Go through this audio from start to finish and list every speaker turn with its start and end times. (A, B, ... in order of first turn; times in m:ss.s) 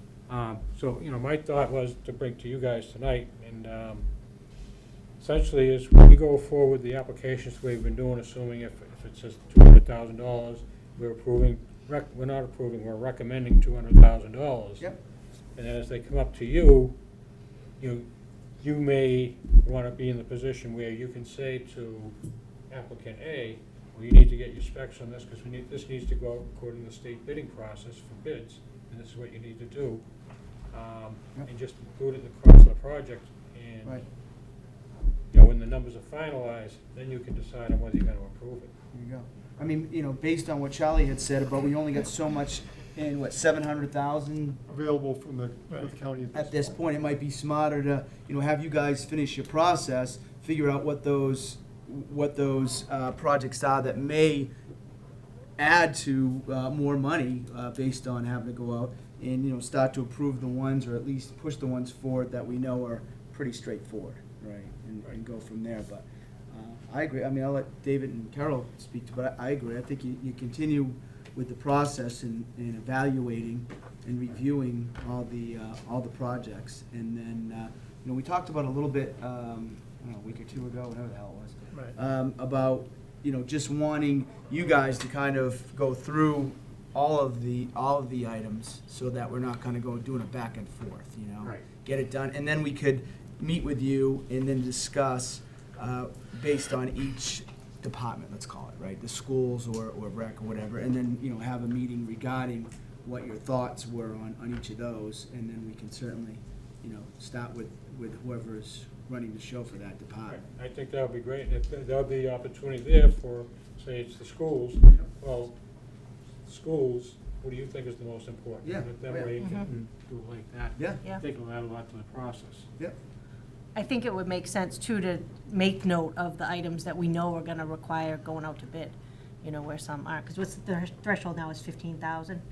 0:00.3-0:04.1 A
0:05.2-0:14.9 A
0:15.5-0:17.0 A
0:17.8-0:18.1 A
0:18.6-0:22.1 A
0:22.7-0:30.0 A
0:30.7-0:34.0 A
0:35.3-0:38.7 A
0:38.9-0:44.6 B
0:44.7-0:46.7 C
0:46.3-0:54.5 B
0:55.6-1:50.4 B
1:50.3-1:55.6 A
1:56.4-2:02.7 A
1:58.6-1:59.7 B
1:59.4-1:59.7 D
2:00.8-2:01.0 B
2:03.7-2:12.4 D